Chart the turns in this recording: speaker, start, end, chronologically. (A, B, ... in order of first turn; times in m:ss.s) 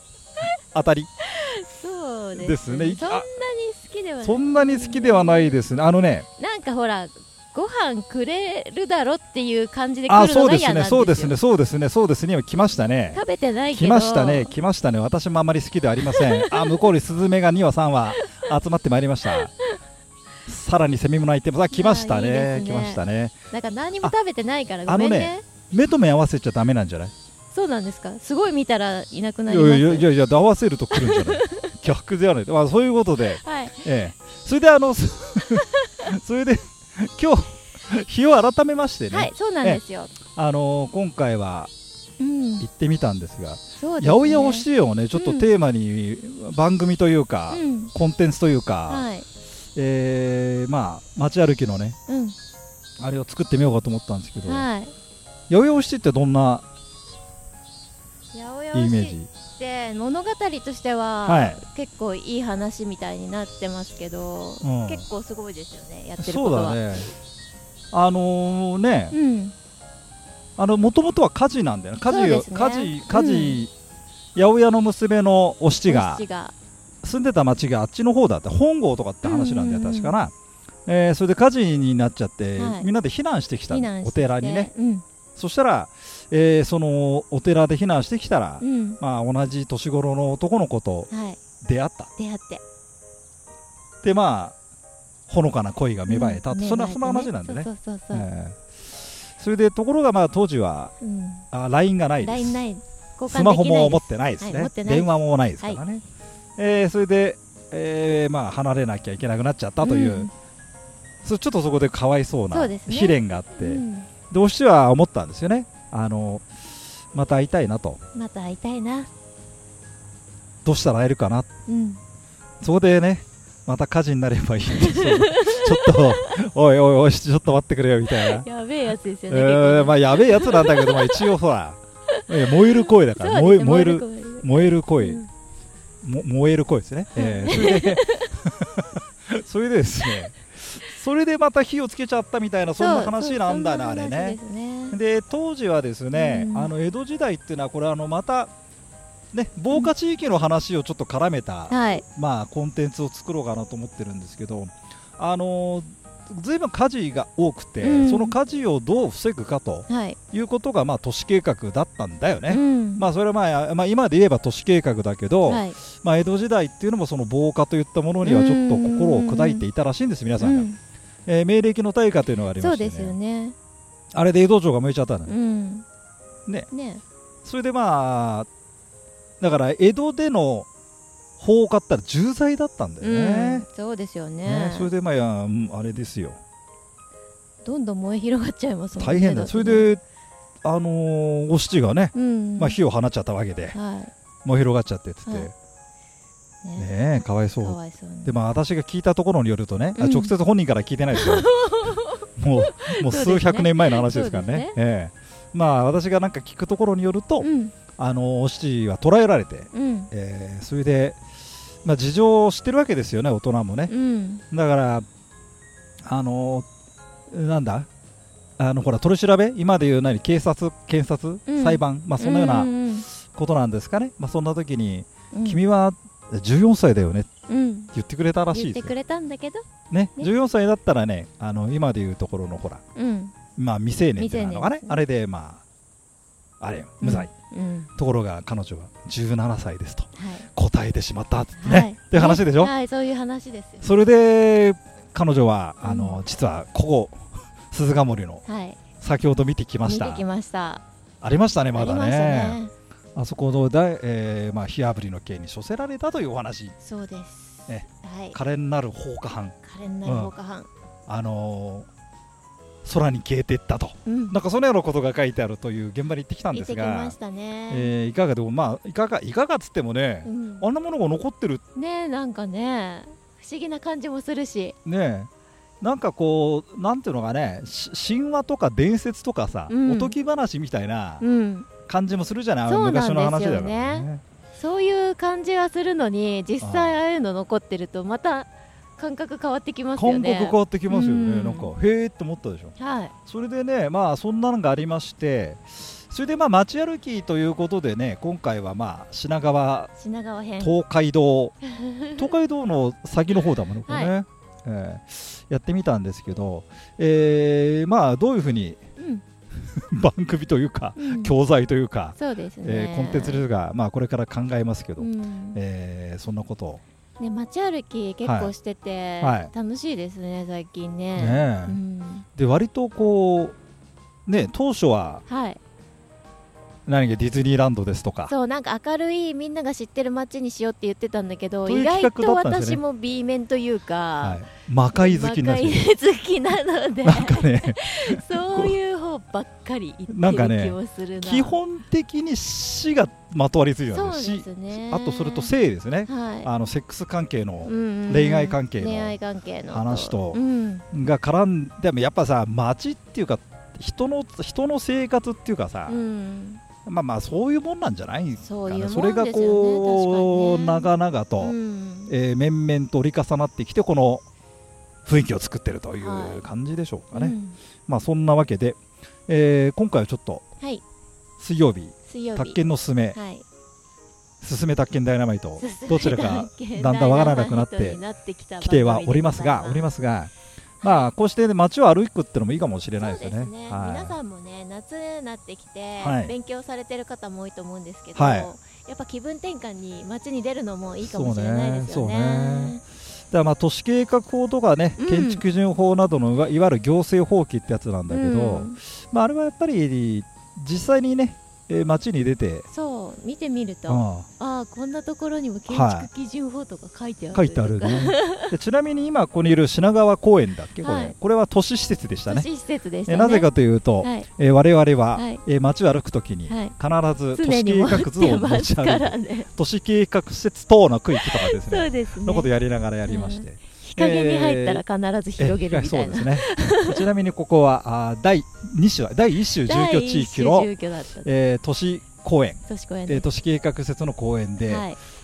0:00.7-0:01.1 A
0:01.3-0:05.6 B
0:02.3-0:03.3 A
0:04.2-0:06.2 A
0:06.4-0:11.3 B
0:10.1-0:13.2 A
0:13.1-0:14.5 B
0:13.7-0:19.5 A
0:16.1-0:16.9 B
0:20.4-0:23.3 A
0:21.7-0:23.0 B
0:23.5-0:25.4 B
0:24.8-0:27.1 A
0:27.5-0:30.1 B
0:29.5-0:41.7 A
0:31.0-0:31.6 B
0:33.4-0:33.8 B
0:39.1-0:40.2 B
0:42.2-0:42.6 B
0:42.6-0:49.1 A
0:43.8-0:45.5 B
0:47.5-0:47.9 B
0:48.9-0:49.2 B
0:49.7-0:52.0 A
0:52.1-0:52.4 B
0:53.0-0:54.7 A
0:54.4-0:54.9 B
0:55.5-0:56.6 A
0:58.3-1:06.8 B
0:58.7-0:59.3 A
1:01.2-1:01.6 A
1:04.6-1:05.0 A
1:06.2-1:07.1 A
1:07.9-1:09.2 A
1:09.1-1:09.5 B
1:10.6-1:13.7 A
1:12.0-1:13.6 B
1:14.3-1:16.2 A
1:15.9-1:16.5 B
1:17.0-1:20.3 A
1:19.2-1:20.1 B
1:20.9-1:24.7 A
1:22.6-1:22.9 B
1:23.7-1:25.0 B
1:25.4-1:31.1 A
1:28.6-1:29.0 B
1:31.1-1:31.4 B
1:31.6-1:32.1 A
1:32.2-1:32.6 B
1:34.0-1:34.5 A
1:35.3-1:38.7 A
1:36.1-1:38.3 B
1:39.4-1:40.9 A
1:41.0-1:41.4 B
1:41.5-1:42.6 A
1:42.2-1:45.8 B
1:43.3-1:46.0 A
1:46.6-1:50.3 A
1:49.8-1:50.3 B
1:51.2-1:56.5 A
1:52.5-1:54.1 B
1:57.1-1:58.0 A
1:58.1-1:59.1 B
2:00.6-2:01.5 A
2:01.7-2:02.0 B
2:02.6-2:08.4 A
2:04.7-2:06.3 B
2:08.1-2:11.3 B
2:09.3-2:15.2 A
2:13.1-2:15.3 B
2:16.0-2:24.4 A
2:17.2-2:18.3 B
2:22.8-2:25.0 B
2:24.9-2:28.5 A
2:26.1-2:26.7 B
2:29.3-2:50.7 A
2:31.7-2:32.0 B
2:37.8-2:38.4 B
2:39.9-2:40.2 B
2:42.5-2:43.0 B
2:45.4-2:45.8 B
2:48.2-2:49.6 B
2:50.4-2:50.8 B
2:51.2-2:53.1 A
2:52.6-2:53.6 B
2:54.1-2:55.3 A
2:55.3-2:55.8 B
2:56.7-2:57.0 B
2:57.4-2:58.5 A
2:59.4-3:00.7 A
3:01.4-3:03.6 A
3:03.0-3:04.9 B
3:04.4-3:06.4 A
3:07.6-3:09.9 B
3:09.0-3:10.0 A
3:10.6-3:13.7 A
3:12.1-3:12.8 B
3:13.7-3:14.1 B
3:14.4-3:15.5 A
3:16.8-3:21.5 A
3:17.6-3:18.3 B
3:19.9-3:20.3 B
3:21.1-3:24.7 B
3:22.4-3:31.2 A
3:27.4-3:27.7 B
3:29.7-3:30.1 B
3:31.8-3:33.9 A
3:33.9-3:34.4 B
3:34.5-3:35.0 A
3:36.0-3:36.7 A
3:37.3-3:37.9 A
3:38.6-3:47.3 A
3:41.5-3:43.1 B
3:45.3-3:45.6 B
3:47.5-3:47.9 B
3:47.9-3:48.9 A
3:48.5-3:49.6 B
3:49.9-3:52.8 A
3:52.9-3:53.4 B
3:53.5-3:55.6 A
3:54.2-3:55.0 B
3:56.6-3:57.3 A
3:57.0-3:57.9 B
3:58.0-4:02.7 A
4:00.2-4:00.4 B
4:01.6-4:03.8 B
4:03.8-4:08.4 A
4:05.8-4:06.2 B
4:08.4-4:08.8 B
4:09.0-4:10.2 A
4:09.8-4:10.8 B
4:11.2-4:12.6 A
4:11.7-4:12.7 B
4:13.2-4:16.7 A
4:16.8-4:18.4 B
4:17.7-4:20.3 A
4:19.6-4:20.7 B
4:21.1-4:21.9 A
4:22.8-4:27.2 A
4:24.0-4:24.4 B
4:26.5-4:27.9 B
4:27.7-4:31.6 A
4:30.2-4:30.7 B
4:31.7-4:34.8 B
4:34.8-4:35.3 A
4:35.8-4:41.2 A
4:39.7-4:40.2 B
4:41.2-4:41.7 B
4:41.8-4:44.2 A
4:42.7-4:51.7 B
4:46.6-4:47.0 A
4:50.0-4:59.9 A
4:52.8-4:53.1 B
5:00.0-5:00.7 B
5:00.6-5:01.6 A
5:01.6-5:02.2 B
5:02.1-5:08.8 A
5:03.9-5:04.1 B
5:09.0-5:09.2 B
5:09.7-5:16.8 A
5:11.0-5:11.3 B
5:12.2-5:13.4 B
5:15.0-5:15.6 B
5:17.2-5:22.2 B
5:18.2-5:18.5 A
5:19.2-5:19.5 A
5:21.2-5:21.8 A
5:22.4-5:23.6 A
5:24.2-5:25.2 A
5:25.3-5:25.6 B
5:26.8-5:28.3 A
5:28.3-5:34.4 B
5:31.6-5:32.8 A
5:34.2-5:35.9 A
5:34.9-5:41.6 B
5:37.0-5:38.8 A
5:40.1-5:49.2 A
5:43.9-5:45.5 B
5:46.1-5:46.5 B
5:47.6-5:50.8 B
5:49.7-5:56.0 A
5:55.9-5:56.6 B
5:56.8-6:01.6 A
5:58.4-6:00.9 B
6:01.4-6:02.1 B
6:02.1-6:04.2 A
6:05.0-6:07.4 A
6:06.0-6:06.4 B
6:07.1-6:07.6 B
6:07.9-6:10.4 A
6:11.4-6:13.2 A
6:12.0-6:12.6 B
6:13.1-6:13.4 B
6:14.4-6:18.0 A
6:15.6-6:19.9 B
6:18.6-6:20.3 A
6:20.8-6:21.1 B
6:20.8-6:24.2 A
6:23.0-6:32.8 B
6:26.0-6:26.3 A
6:28.1-6:28.5 A
6:31.0-6:32.8 A
6:33.3-6:42.6 A
6:35.0-6:35.4 B
6:38.1-6:38.8 B
6:42.7-6:48.5 B
6:43.9-6:44.3 A
6:45.7-6:46.1 A
6:47.3-6:52.5 A
6:50.8-6:51.1 B
6:52.3-6:53.5 B
6:53.1-7:04.8 A
6:54.0-6:54.3 B
6:55.1-6:55.4 B
6:56.5-6:56.7 B
6:57.3-6:59.5 B
7:01.2-7:02.5 B
7:03.0-7:07.0 B
7:05.4-7:10.7 A
7:09.5-7:11.3 B
7:11.2-7:14.9 A
7:12.7-7:13.2 B
7:14.7-7:15.0 B